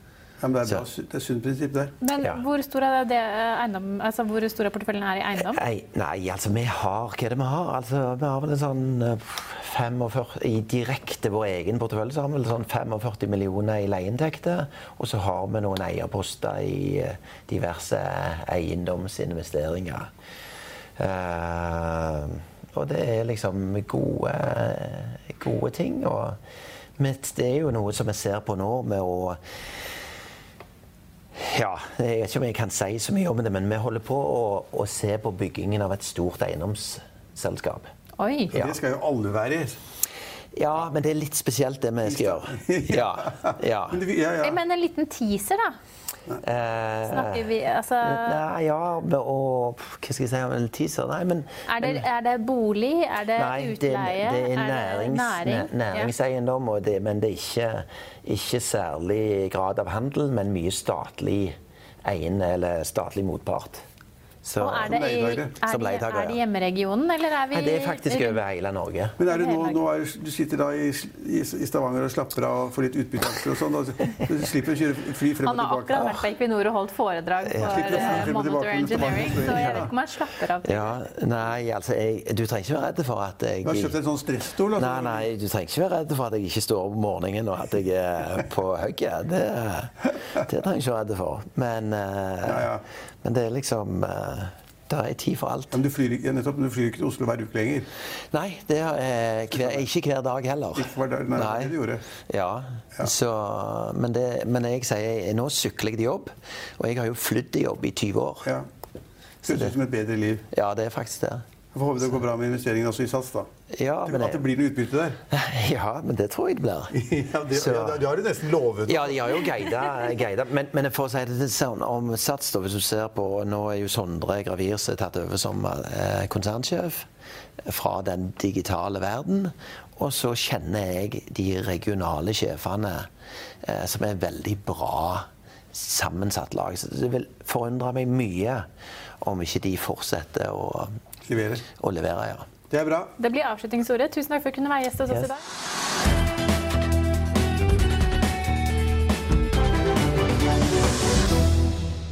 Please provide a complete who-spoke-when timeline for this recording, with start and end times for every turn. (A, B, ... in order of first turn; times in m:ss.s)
0:00.4-0:01.9 A
0:02.0-0:05.6 B
0:05.4-0:20.1 C
0:21.0-0:26.4 C
0:27.0-0:29.4 C
0:31.4-0:37.9 C
0:38.2-0:38.5 B
0:38.5-0:38.8 C
0:38.5-0:39.8 A
0:40.5-0:44.0 C
0:42.0-0:44.6 A
0:44.4-0:45.7 B
0:46.4-0:52.0 C
0:47.1-0:48.4 B
0:51.7-0:56.1 B
0:53.4-1:03.8 C
1:04.4-1:04.9 C
1:04.6-1:08.4 B
1:04.8-1:05.5 A
1:05.6-1:06.4 C
1:07.5-1:09.2 C
1:09.2-1:16.1 A
1:09.3-1:09.8 B
1:15.4-1:21.0 B
1:15.9-1:16.2 C
1:17.4-1:18.3 C
1:17.6-1:19.9 A
1:19.4-1:19.9 C
1:20.6-1:23.9 C
1:23.6-1:25.3 A
1:24.7-1:32.7 C
1:32.4-1:32.8 A
1:33.2-1:35.8 C
1:35.7-1:37.9 A
1:38.3-1:48.5 C
1:40.8-1:42.0 A
1:49.4-1:49.8 C
1:49.4-1:50.4 A
1:50.5-1:51.4 C
1:51.7-1:53.5 A
1:53.7-1:54.4 C
1:54.0-1:55.2 A
1:55.3-1:57.0 C
1:56.9-1:59.5 A
1:57.5-1:58.0 C
1:58.9-2:07.1 C
2:07.6-2:13.1 C
2:13.6-2:18.7 C
2:19.2-2:20.9 C
2:21.3-2:21.6 A
2:21.7-2:22.5 C
2:22.7-2:23.1 A
2:23.2-2:25.4 B